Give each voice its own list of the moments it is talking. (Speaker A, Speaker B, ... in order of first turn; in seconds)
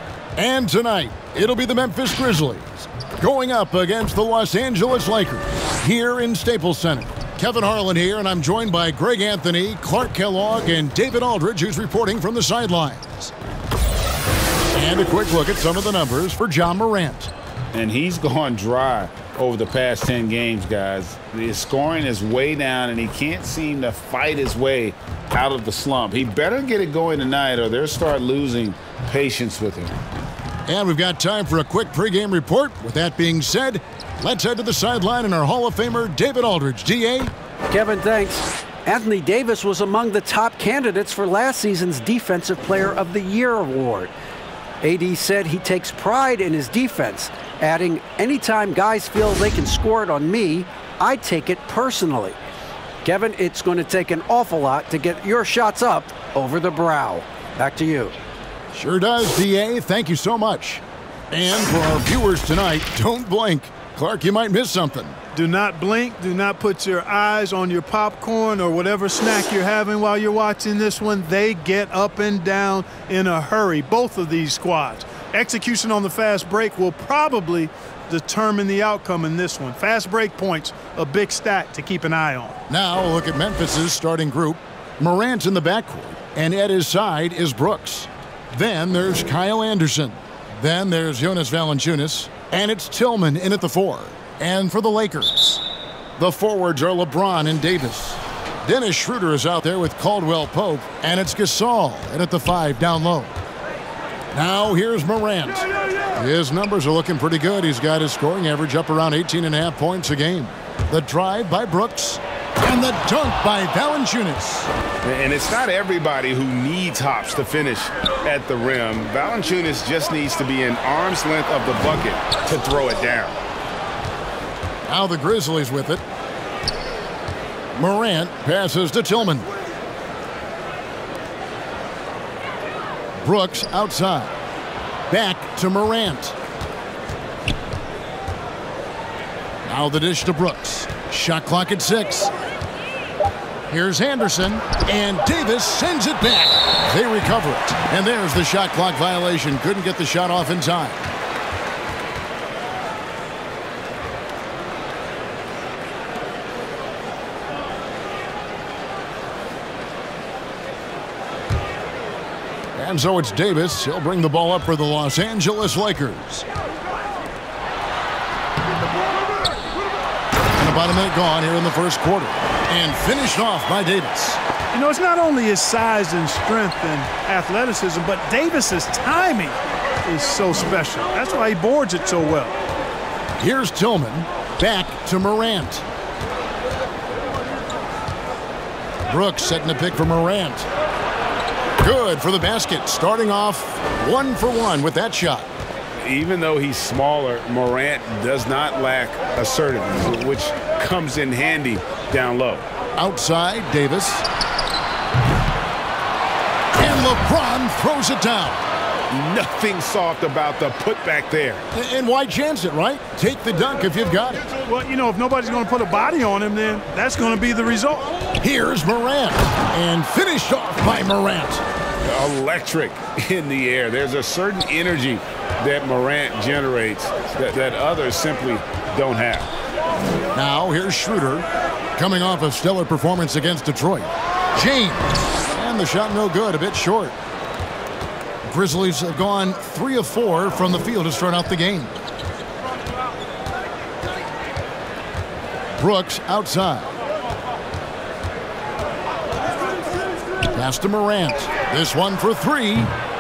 Speaker A: 0.4-13.3, 14.7-17.3, 30.7-37.3, 58.7-65.2, 82.7-95.6, 96.2-103.3, 104.3-114.7, 124.9-126.0, 127.8-129.5, 133.2-134.3, 135.1-136.4, 139.7-142.3, 143.7-151.1, 162.8-166.4, 170.6-174.4, 183.4-185.8, 189.1-190.7, 191.8-195.5, 203.0-204.2, 206.8-208.6, 211.7-214.4, 218.4-221.6, 230.3-237.2, 238.4-241.9, 245.8-246.9, 250.5-252.9
Speaker B: 17.7-29.9, 115.0-123.4, 196.0-202.7, 209.1-211.6, 222.0-229.5
Speaker C: 37.7-44.1, 44.8-52.4, 53.0-58.1
Speaker D: 65.3-82.6, 174.7-182.6, 214.7-218.2